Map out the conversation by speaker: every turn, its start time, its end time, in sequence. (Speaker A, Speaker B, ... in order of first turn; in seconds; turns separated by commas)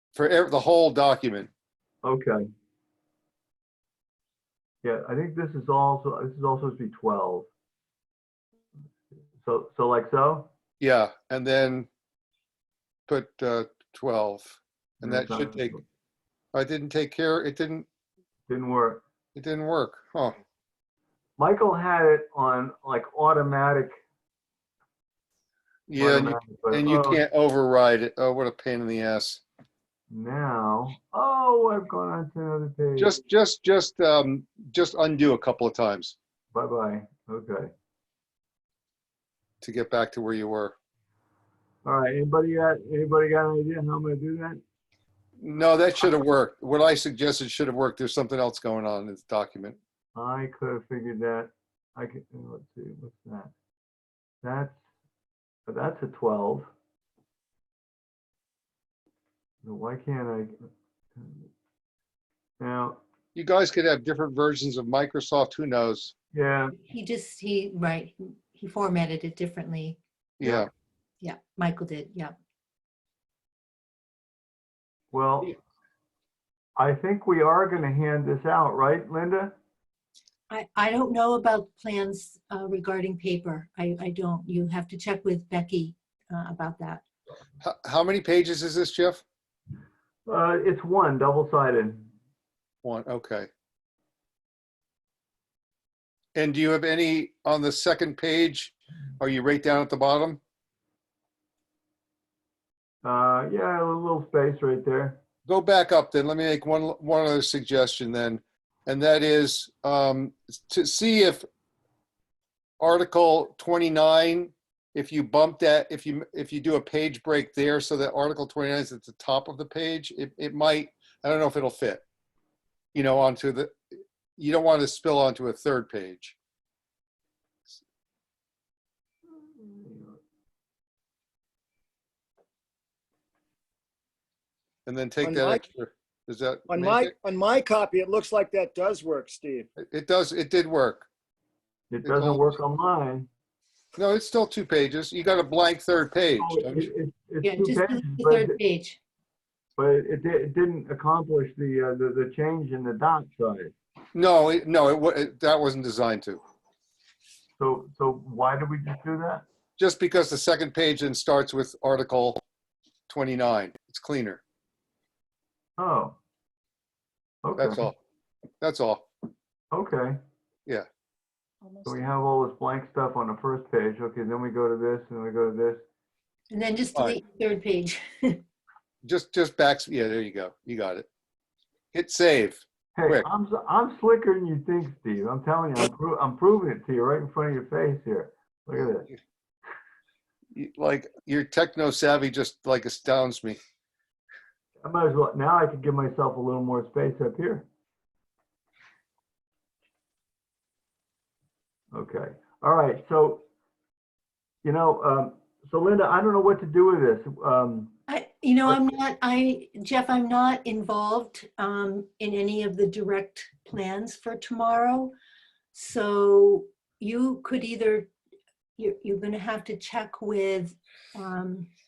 Speaker A: 0.1-1.5, Speaker B: 2.0-2.5, Speaker B: 4.8-7.5, Speaker B: 9.4-10.5, Speaker A: 10.8-11.9, Speaker A: 13.1-15.8, Speaker B: 15.0-15.8, Speaker A: 16.5-17.9, Speaker B: 18.5-19.0, Speaker A: 19.3-20.4, Speaker B: 21.4-24.0, Speaker A: 25.9-29.4, Speaker B: 26.0-27.2, Speaker B: 30.1-33.1, Speaker A: 33.0-36.1, Speaker B: 36.5-37.7, Speaker A: 39.6-40.7, Speaker B: 41.8-44.6, Speaker A: 45.4-49.8, Speaker B: 50.1-53.5, Speaker B: 54.4-54.8, Speaker B: 55.7-56.7, Speaker B: 59.6-60.5, Speaker B: 61.1-61.5, Speaker B: 62.6-63.0, Speaker A: 63.3-66.1, Speaker B: 66.3-66.7, Speaker C: 66.8-70.0, Speaker A: 70.4-70.7, Speaker B: 70.4-70.7, Speaker C: 71.2-72.3, Speaker B: 75.1-75.5, Speaker B: 76.8-79.5, Speaker C: 80.5-87.0, Speaker A: 87.6-89.2, Speaker B: 90.3-92.1, Speaker A: 92.8-93.5, Speaker A: 96.3-100.4, Speaker B: 103.0-105.2, Speaker A: 105.5-111.4, Speaker A: 112.8-122.0, Speaker A: 122.9-123.8, Speaker A: 124.4-126.4, Speaker B: 129.4-130.2, Speaker A: 134.8-137.1, Speaker D: 135.2-135.6, Speaker D: 136.7-139.7, Speaker A: 139.8-141.1, Speaker B: 141.9-143.3, Speaker A: 142.0-142.5, Speaker A: 143.9-146.9, Speaker B: 146.4-148.6, Speaker C: 147.4-149.0, Speaker B: 149.8-153.7, Speaker A: 154.1-156.4, Speaker B: 157.6-159.4, Speaker A: 159.8-162.4, Speaker A: 163.1-164.4, Speaker B: 165.8-166.2, Speaker B: 167.4-167.8, Speaker A: 167.6-167.9, Speaker A: 168.6-169.0, Speaker B: 169.7-170.2, Speaker B: 171.8-175.8, Speaker C: 176.5-178.4, Speaker A: 179.0-181.1, Speaker A: 181.9-183.3, Speaker B: 182.9-189.1, Speaker A: 190.5-193.6, Speaker B: 194.8-197.7, Speaker B: 201.9-203.4, Speaker B: 204.6-207.9, Speaker C: 208.1-215.1, Speaker C: 215.7-218.1, Speaker C: 218.8-221.7